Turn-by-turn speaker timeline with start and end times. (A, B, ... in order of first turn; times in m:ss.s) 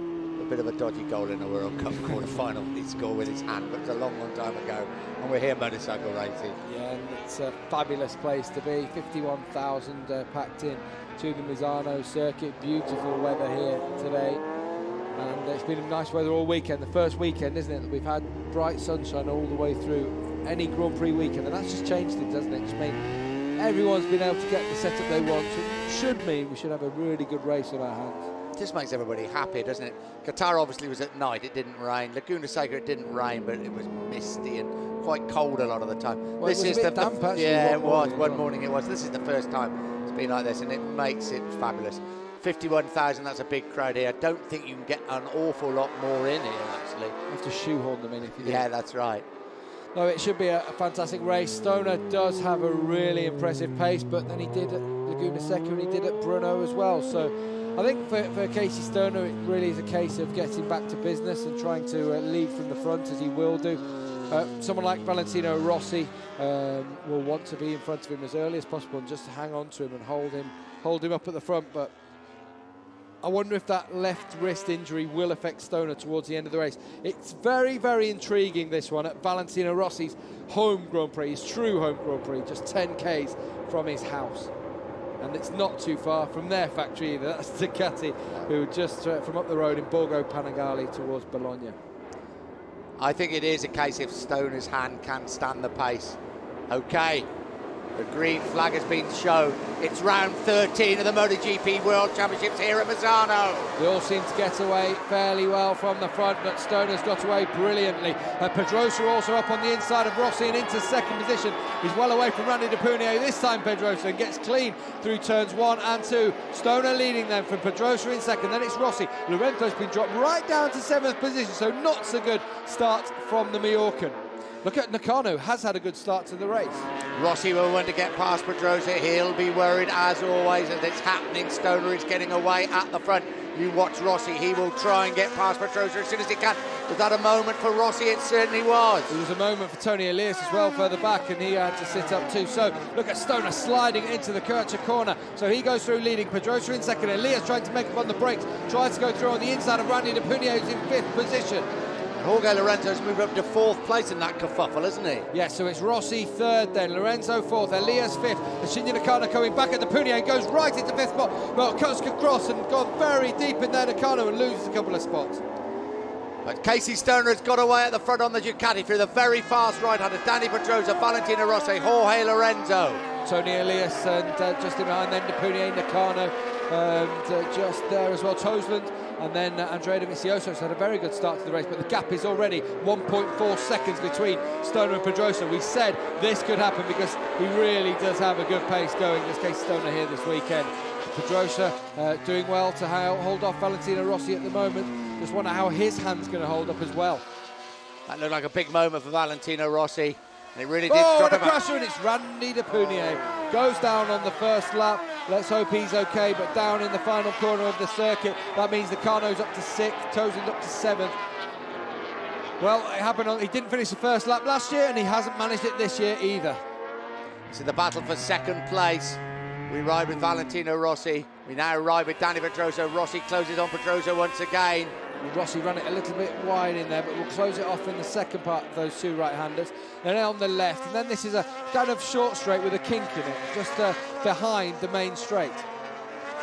0:00.4-0:06.6 A
0:06.6-0:14.4 B
0:15.2-0:23.0 B
0:23.6-0:28.2 B
0:28.6-0:47.1 A
0:36.4-0:38.4 B
0:47.3-0:48.6 B
0:48.4-0:49.2 A
0:49.9-1:11.9 B
1:13.2-1:24.5 B
1:25.2-1:31.8 B
1:33.0-1:36.2 A
1:36.7-1:37.3 A
1:38.0-1:43.7 A
1:43.8-2:06.8 B
2:07.1-2:19.1 A
2:19.1-2:31.7 B
2:32.2-2:35.2 A
2:35.3-2:45.4 B
2:46.4-2:53.0 A
2:53.2-3:17.2 B
3:18.1-3:21.5 A
3:20.9-3:31.2 B
3:32.6-3:36.6 B
3:37.5-3:44.9 A
3:45.2-3:55.6 B